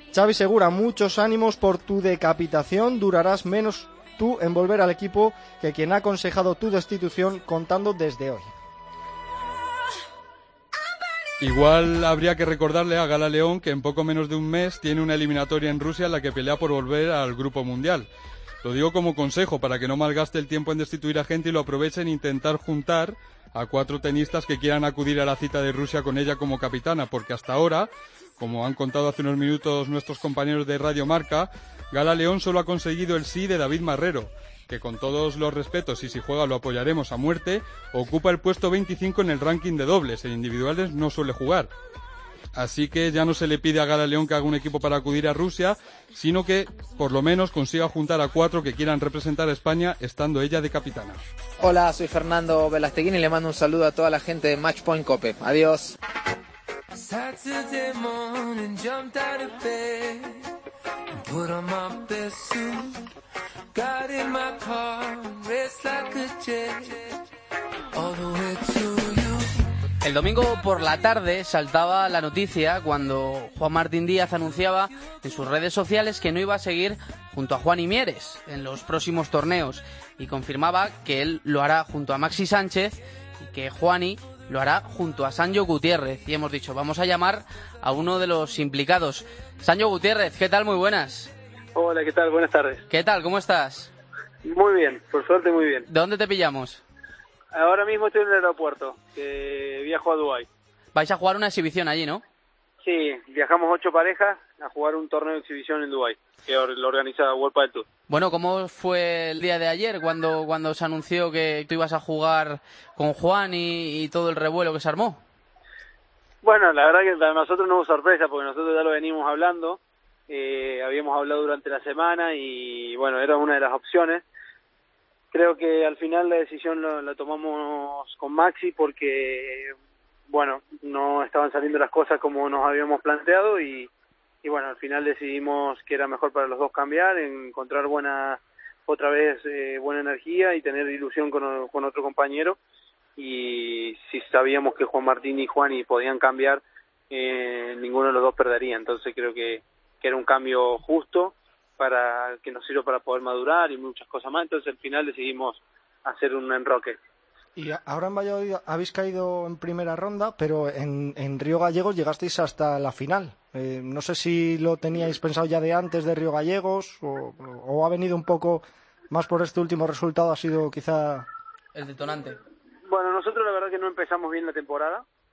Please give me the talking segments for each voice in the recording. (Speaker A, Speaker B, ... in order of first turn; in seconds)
Speaker A: 0.1-8.5, 157.6-171.3
Speaker B: 11.4-18.1, 18.6-41.7, 42.5-51.2
Speaker C: 51.6-56.0
Speaker D: 56.9-60.5, 61.1-63.0, 63.7-67.2, 67.9-69.5
Speaker E: 70.0-91.3, 92.9-93.9, 95.9-96.8, 100.9-102.2, 108.1-115.2, 171.8-172.4
Speaker F: 91.8-92.8, 94.4-95.9, 97.5-100.5, 102.8-107.9, 116.4-124.2, 125.3-129.7, 130.3-133.9, 134.4-142.6, 143.2-157.0, 172.8-175.1